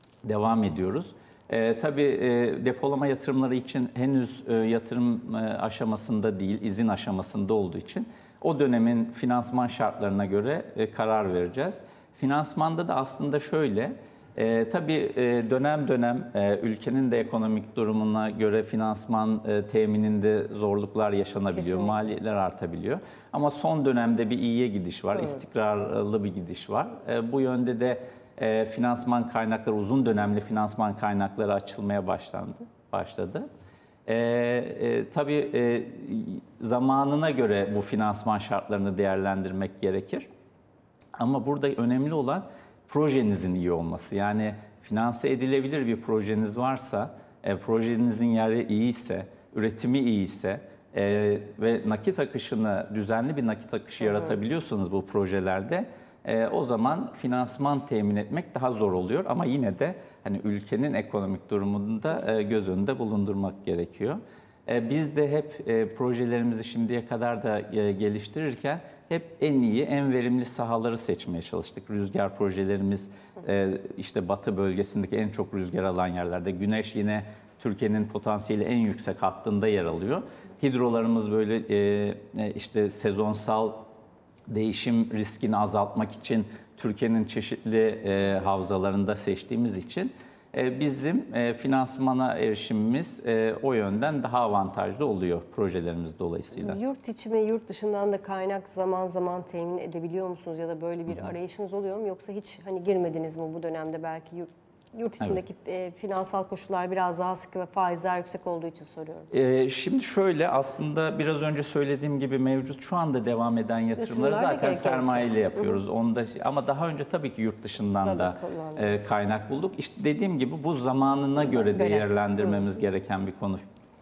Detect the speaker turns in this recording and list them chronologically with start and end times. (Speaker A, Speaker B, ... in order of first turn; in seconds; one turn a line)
Speaker A: 0.2-33.5
Speaker B: 21.6-21.9
Speaker A: 34.0-40.3
Speaker A: 41.2-83.8
Speaker A: 84.5-96.8
Speaker B: 96.6-109.3
Speaker A: 109.3-123.6
Speaker B: 114.0-115.8
Speaker B: 118.0-118.9
Speaker B: 121.5-122.1